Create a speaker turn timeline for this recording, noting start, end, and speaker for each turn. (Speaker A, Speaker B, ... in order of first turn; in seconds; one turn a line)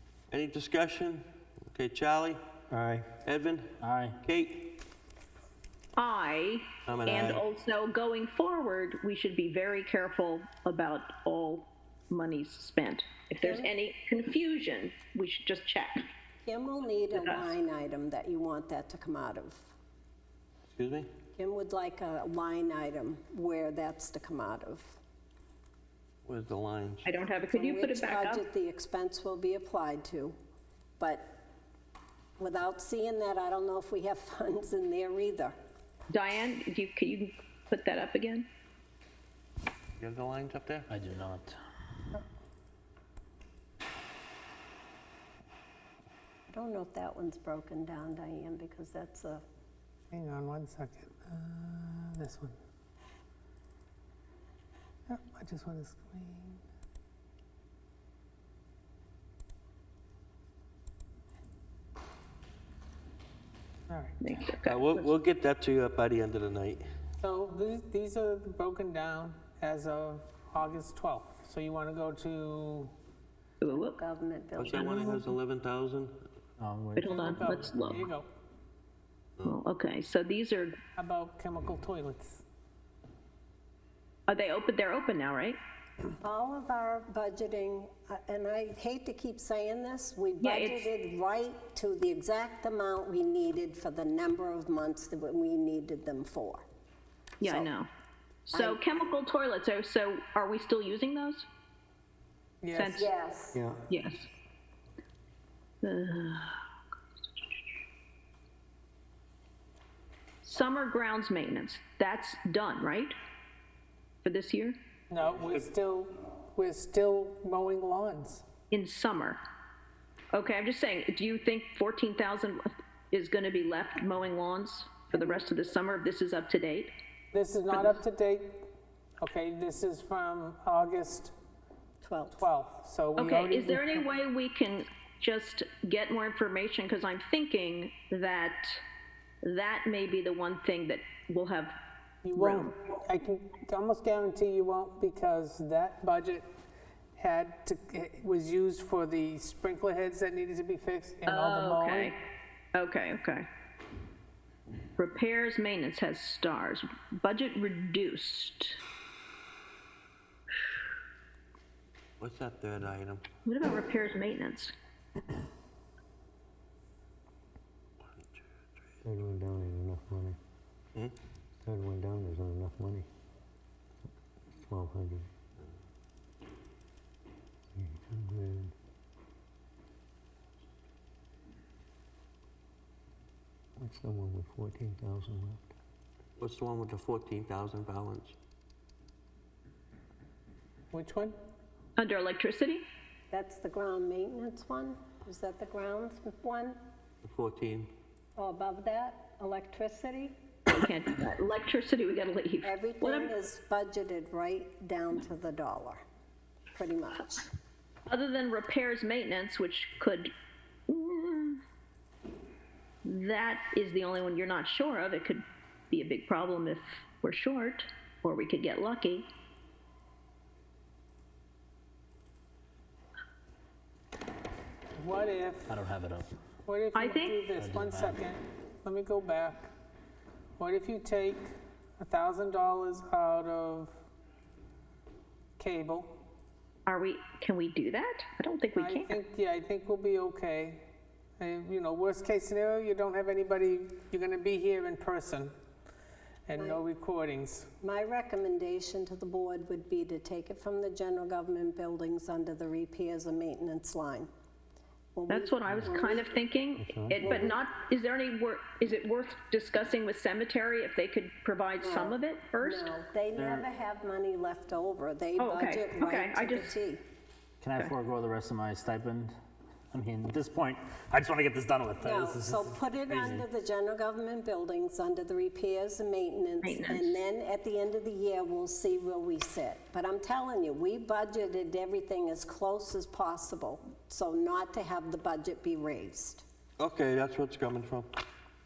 Speaker A: 0.3-2.4
Speaker B: 2.7-3.0
Speaker A: 3.2-3.7
Speaker B: 3.8-4.2
Speaker A: 4.2-4.7
Speaker C: 6.0-16.1
Speaker A: 6.8-7.4
Speaker D: 13.4-13.7
Speaker D: 16.4-19.7
Speaker A: 20.7-21.1
Speaker D: 21.4-25.0
Speaker A: 26.2-27.1
Speaker C: 27.0-28.4
Speaker D: 27.5-30.3
Speaker D: 31.0-31.2
Speaker D: 32.4-35.5
Speaker C: 36.1-38.5
Speaker A: 40.0-40.9
Speaker B: 40.9-41.6
Speaker D: 46.5-49.4
Speaker E: 50.1-52.5
Speaker E: 55.1-56.6
Speaker E: 63.9-64.3
Speaker C: 64.2-65.1
Speaker A: 64.6-66.8
Speaker E: 67.2-72.9
Speaker C: 73.6-74.0
Speaker D: 73.7-75.3
Speaker A: 74.6-76.2
Speaker C: 74.8-75.1
Speaker B: 76.6-78.0
Speaker C: 77.0-78.0
Speaker E: 77.1-78.3
Speaker C: 79.4-80.8
Speaker E: 80.9-82.4
Speaker C: 84.3-85.6
Speaker D: 86.2-96.7
Speaker C: 90.4-90.9
Speaker D: 97.4-97.7
Speaker C: 97.4-97.9
Speaker C: 98.5-101.5
Speaker D: 98.5-98.8
Speaker E: 102.6-103.0
Speaker C: 102.7-103.1
Speaker D: 103.0-103.6
Speaker C: 103.9-104.3
Speaker C: 105.8-106.6
Speaker C: 110.4-113.1
Speaker C: 114.2-114.8
Speaker E: 115.1-118.4
Speaker A: 115.3-115.6
Speaker C: 118.7-119.4
Speaker C: 120.3-126.9
Speaker D: 125.1-125.4
Speaker E: 127.3-128.4
Speaker E: 129.2-131.3
Speaker D: 132.0-132.4
Speaker E: 132.4-133.8
Speaker C: 133.2-138.8
Speaker C: 139.4-141.7
Speaker E: 142.2-146.4
Speaker C: 142.3-142.7
Speaker E: 147.2-152.1
Speaker C: 151.2-152.1
Speaker C: 152.8-153.4
Speaker C: 155.0-158.8
Speaker A: 162.2-163.2
Speaker C: 163.4-164.7
Speaker F: 169.0-170.4
Speaker F: 171.6-173.1
Speaker F: 174.5-175.3
Speaker F: 177.7-178.7
Speaker F: 183.8-185.6
Speaker A: 186.4-188.3
Speaker E: 190.9-191.3
Speaker C: 192.0-192.8
Speaker D: 193.3-196.8
Speaker A: 197.2-197.9
Speaker D: 198.4-200.3
Speaker C: 200.7-203.3
Speaker D: 202.6-206.0
Speaker D: 206.7-207.5
Speaker C: 208.1-210.3
Speaker C: 210.9-211.6
Speaker C: 213.0-219.3
Speaker E: 225.0-225.7
Speaker B: 225.7-226.3
Speaker E: 226.7-229.6
Speaker C: 226.9-227.4
Speaker B: 227.5-228.2
Speaker E: 230.6-231.4
Speaker E: 232.0-233.9
Speaker E: 235.6-236.1
Speaker C: 236.8-239.2
Speaker E: 238.8-240.7
Speaker E: 241.4-245.5
Speaker E: 246.5-247.7
Speaker D: 247.8-254.3
Speaker D: 255.1-256.3
Speaker C: 255.3-262.9
Speaker F: 256.8-257.5
Speaker D: 257.2-257.6
Speaker D: 261.8-267.0
Speaker B: 263.3-263.6
Speaker C: 265.4-266.7
Speaker B: 267.6-269.3
Speaker B: 269.9-273.4
Speaker D: 272.0-286.4
Speaker C: 276.6-277.2
Speaker A: 286.8-288.1